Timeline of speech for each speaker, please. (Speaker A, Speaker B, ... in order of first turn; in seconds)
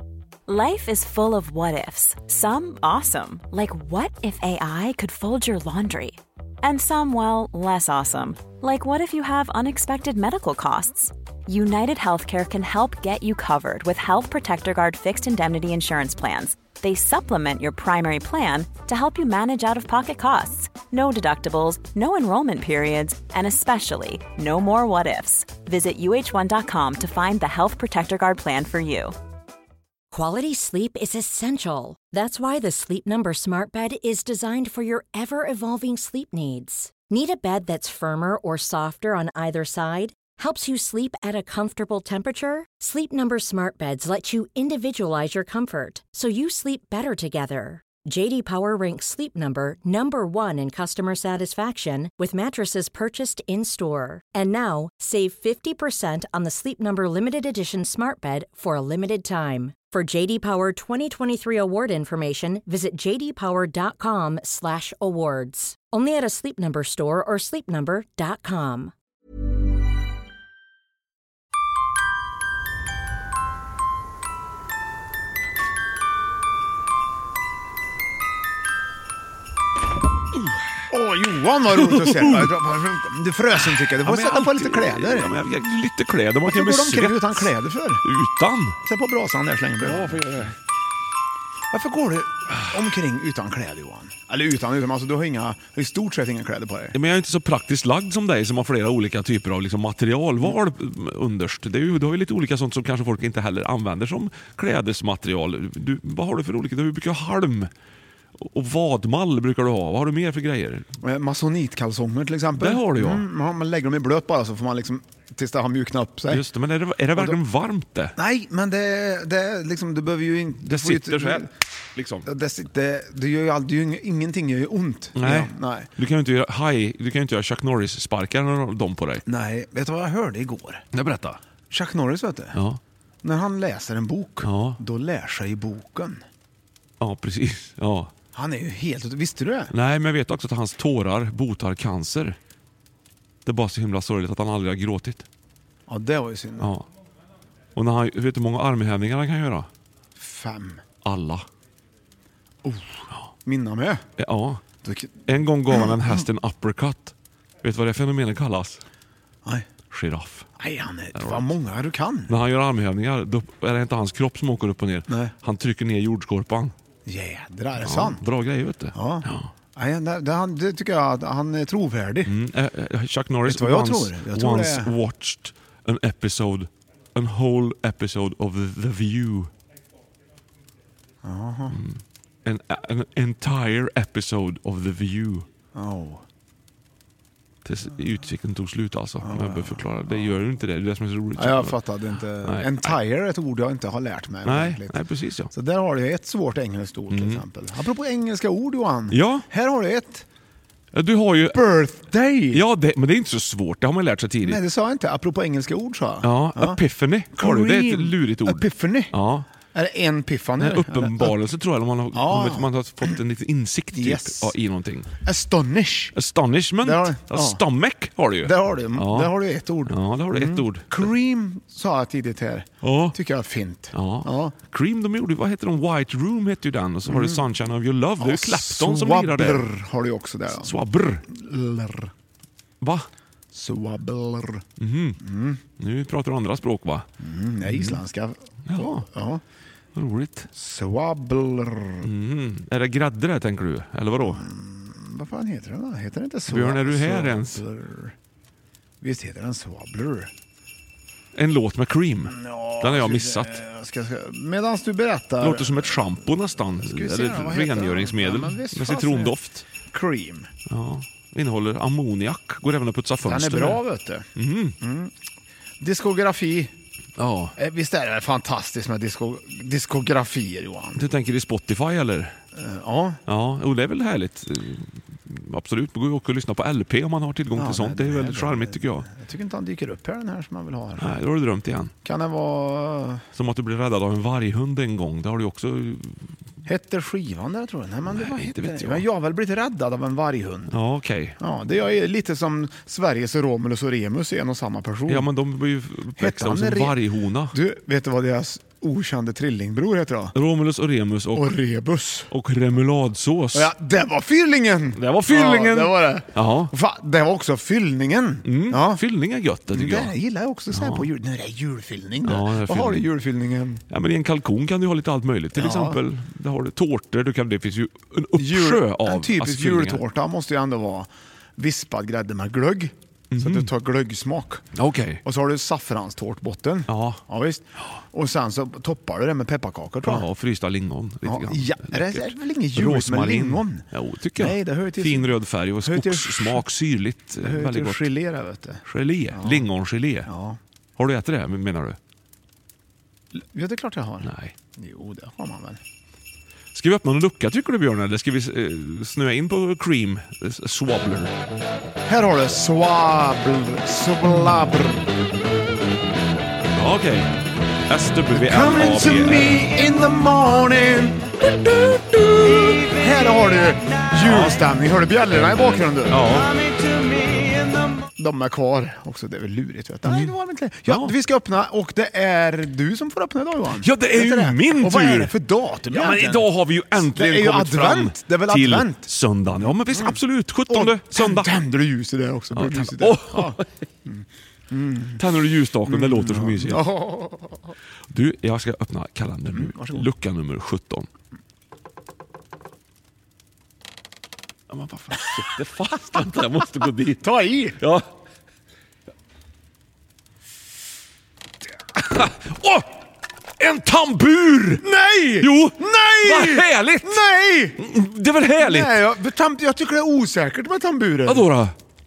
Speaker A: 0.5-29.1
Speaker B: 30.1-68.9
Speaker C: 80.9-85.4, 86.5-88.0, 88.8-90.3, 91.7-97.0, 111.0-116.4, 118.2-121.5, 122.2-125.9, 129.3-130.8, 131.7-132.6, 133.2-136.2, 138.3-139.7, 145.9-146.7, 150.2-150.8, 152.6-154.0, 154.8-155.2, 160.6-162.3, 165.1-165.3, 167.1-168.2, 168.9-172.3, 173.4-174.9, 181.2-181.8, 185.7-186.2, 189.2-189.8, 191.4-195.0, 195.5-200.2, 201.5-202.7, 204.4-206.8, 207.3-209.1, 209.7-211.3, 212.1-213.2, 213.9-214.5, 215.2-216.1, 216.8-217.6, 218.4-224.6, 227.1-227.4, 228.2-230.8, 231.3-232.1, 233.5-234.6, 235.2-235.6, 237.2-239.4, 240.5-242.1, 244.2-248.2, 249.0-250.3, 252.2-256.2, 256.8-259.4, 259.9-260.5, 263.2-264.3, 264.8-265.1, 265.8-266.7, 267.6-271.0, 272.6-273.2, 277.6-281.2, 282.0-283.2, 286.7-290.7, 291.4-295.3, 296.2-297.0, 297.5-300.3, 301.3-302.3, 303.5-309.0, 309.7-313.8, 315.6-316.0, 318.4-324.6, 325.2-330.3, 331.2-333.9, 334.4-336.6, 337.4-338.8, 339.3-339.7, 340.3-340.6, 343.4-345.8, 352.1-355.1, 358.3-361.5, 362.1-366.5, 368.2-379.1, 379.9-385.2, 385.9-387.8, 389.5-390.1, 397.1-397.9, 404.8-407.8, 408.6-411.5
Speaker D: 81.7-82.5, 83.6-88.8, 89.8-90.5, 96.9-107.7, 108.4-110.9, 112.5-113.3, 116.3-118.2, 120.7-122.3, 125.2-129.2, 130.9-131.4, 132.5-132.8, 134.4-134.8, 137.0-138.1, 139.7-142.4, 143.4-145.2, 146.6-146.9, 147.8-149.7, 151.0-151.4, 154.2-154.6, 155.3-158.8, 159.9-160.5, 161.1-161.5, 162.3-166.7, 167.8-169.5, 172.3-179.5, 181.7-185.5, 187.7-191.8, 192.4-193.0, 194.4-195.5, 197.1-197.4, 199.1-199.5, 200.9-201.6, 202.5-204.6, 206.2-209.5, 210.6-215.1, 216.1-219.3, 219.9-221.1, 222.8-223.2, 223.9-229.7, 230.5-231.2, 232.8-233.1, 234.8-235.2, 235.8-237.1, 237.7-238.0, 238.7-239.0, 239.9-240.5, 242.0-244.4, 246.5-247.6, 251.3-253.6, 255.4-259.7, 260.7-263.8, 264.4-264.8, 267.2-267.5, 270.9-272.3, 273.3-279.1, 281.0-281.9, 283.4-286.2, 288.1-289.1, 290.7-291.4, 295.1-297.6, 300.3-301.6, 302.3-303.7, 304.9-306.7, 308.4-310.1, 310.7-311.1, 312.2-313.1, 313.9-320.0, 323.3-323.7, 324.8-325.2, 326.9-327.2, 330.1-338.1, 338.9-340.3, 341.0-342.0, 344.2-344.5, 346.8-351.3, 356.8-357.3, 357.9-359.6, 361.8-362.2, 364.2-364.6, 366.1-366.5, 370.1-370.3, 370.9-371.1, 373.8-375.3, 375.9-381.5, 382.5-383.7, 385.2-386.9, 388.1-391.1, 394.7-397.2, 397.8-398.0, 402.0-402.9, 403.6-404.8, 405.4-407.2, 407.8-409.0, 411.3-411.8